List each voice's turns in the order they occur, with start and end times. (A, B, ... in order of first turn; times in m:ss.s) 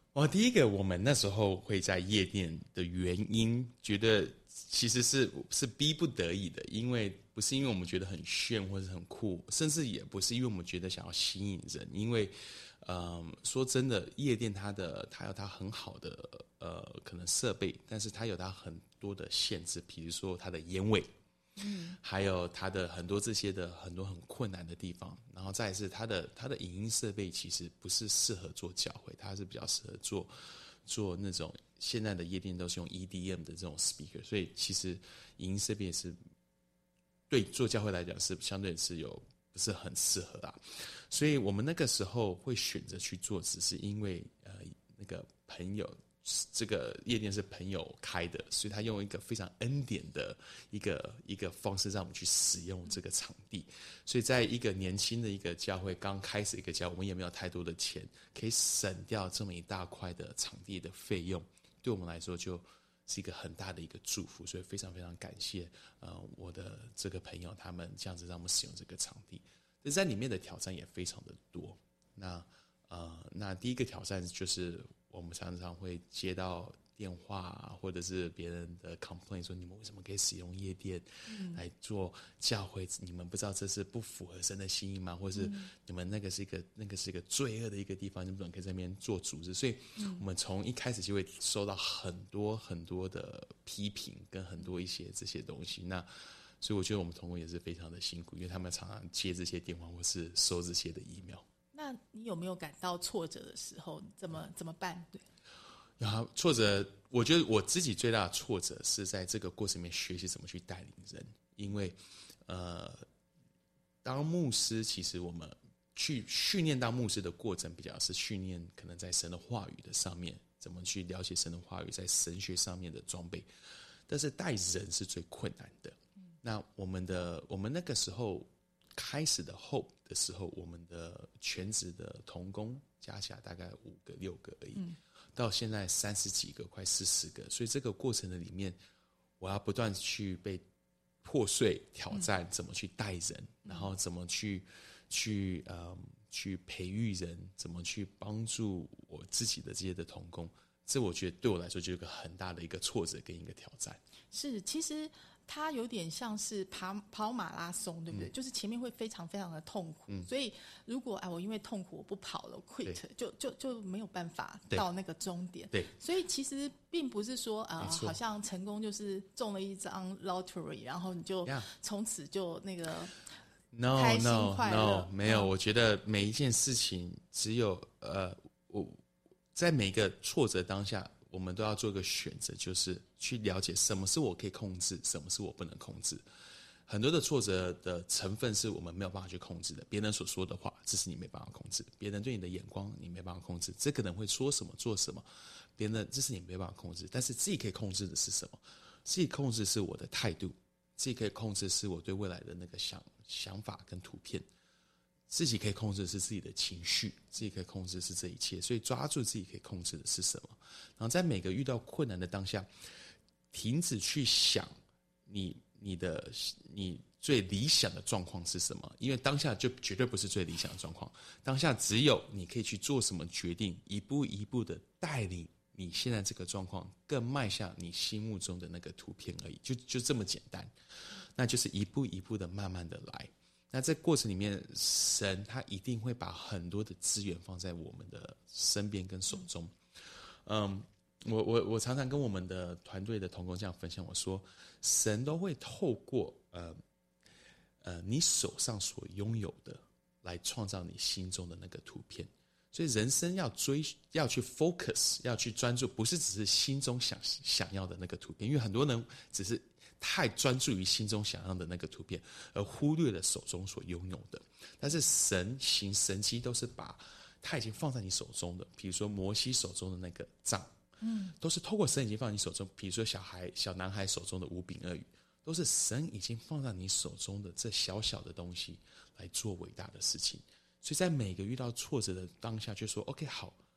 0:00.1-0:21.1 A
0:21.6-0:22.0 B
0:22.0-0:36.2 A
0:37.3-1:41.4 A
1:21.3-1:21.6 B
1:25.4-1:25.7 B
1:30.0-1:30.2 B
1:41.7-1:45.2 B
1:46.0-1:53.0 A
1:54.0-2:18.8 A
2:19.4-2:20.6 A
2:21.2-2:34.0 A
2:34.3-2:53.1 B
2:47.8-2:48.2 A
2:53.7-2:59.0 A
2:53.9-2:55.5 B
2:59.5-3:06.2 A
3:06.9-3:24.5 A
3:25.3-3:32.7 A
3:33.5-3:34.7 A
3:35.2-4:06.8 A
4:07.8-4:30.7 A
4:31.0-4:31.3 B
4:31.3-4:43.6 A